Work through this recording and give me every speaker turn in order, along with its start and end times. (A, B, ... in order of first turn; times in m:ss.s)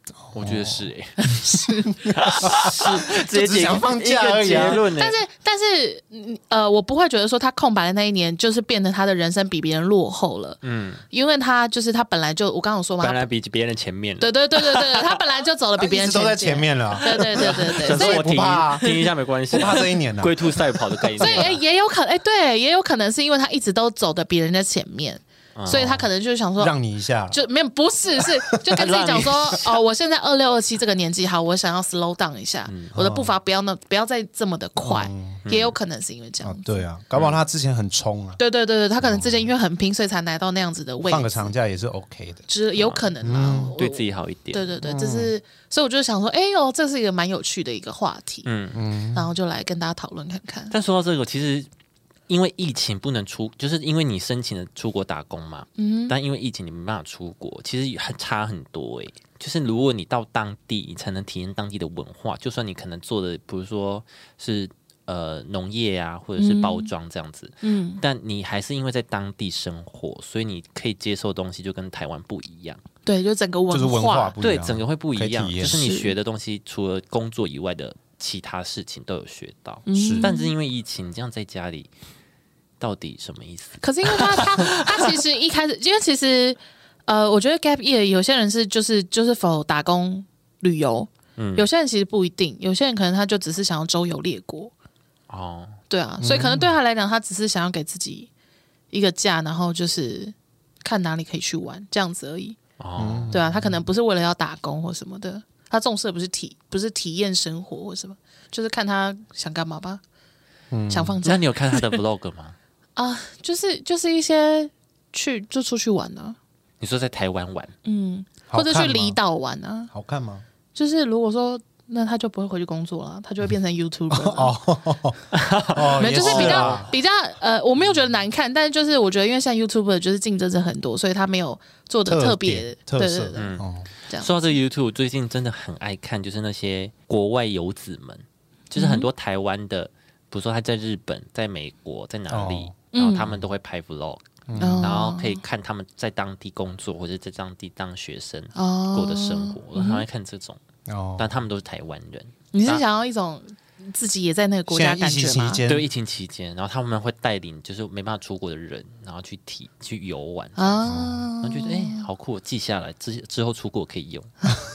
0:00.2-0:00.9 A
0:00.3-0:01.2 B
0:01.2-0:02.1 C
0:01.9-0:04.9 A
0:02.1-0:05.2 B
0:04.4-0:13.2 C
0:10.6-0:11.0 B
0:13.0-0:15.2 B
0:14.2-0:19.1 C
0:15.8-0:18.8 A
0:17.1-0:21.6 B
0:19.5-0:21.5 A
0:21.2-0:26.7 C
0:25.6-0:26.0 B
0:25.8-0:26.0 A
0:26.6-0:27.4 A
0:27.3-0:36.8 C
0:28.2-0:28.8 A
0:28.7-0:29.8 B
0:32.7-0:32.9 B
0:33.0-0:33.3 A
0:34.8-0:35.4 A
0:35.4-0:35.8 B
0:36.4-0:38.4 A
0:38.4-0:41.5 C
0:39.0-0:39.5 A
0:41.0-0:42.4 A
0:42.5-0:48.5 C
0:42.8-0:43.1 B
0:43.2-0:43.8 A
0:43.8-0:44.7 B
0:44.8-0:45.3 A
0:48.4-0:48.8 B
0:48.7-0:49.3 A
0:49.1-0:50.7 C
0:50.7-0:51.7 B
0:52.3-1:12.8 B
0:55.8-0:56.2 C
1:06.4-1:06.9 C
1:07.6-1:08.0 C
1:13.1-1:14.4 C
1:13.7-1:15.8 A
1:14.4-1:21.9 B
1:15.6-1:16.1 C
1:19.9-1:20.5 C
1:20.0-1:20.3 A
1:22.8-1:25.2 B
1:23.8-1:34.7 C
1:31.4-1:31.6 B
1:35.3-1:35.8 B
1:35.9-1:38.3 C
1:36.2-1:36.7 A
1:38.9-1:42.6 C
1:42.8-1:43.4 B
1:43.0-1:43.8 A
1:43.3-1:50.0 C
1:50.7-1:51.2 A
1:50.9-1:52.0 C
1:51.2-1:52.6 B
1:53.0-1:56.4 C
1:56.8-1:57.8 B
1:57.8-1:59.9 C
1:58.5-1:59.2 A
1:59.9-2:00.4 A
2:00.8-2:04.5 C
2:04.1-2:06.9 A
2:05.3-2:06.9 B
2:06.0-2:13.6 C
2:12.1-2:13.9 A
2:13.4-2:24.3 B
2:14.1-2:14.5 C
2:18.8-2:19.1 C
2:22.3-2:22.8 A
2:22.9-2:23.4 C
2:24.5-2:25.0 A
2:24.6-2:25.4 C
2:24.8-2:30.6 B
2:28.6-2:30.0 C
2:30.9-2:31.3 A
2:31.2-2:32.8 B
2:32.5-2:35.6 C
2:34.7-2:35.9 A
2:35.7-2:44.3 B
2:40.6-2:42.1 C
2:40.9-2:41.3 A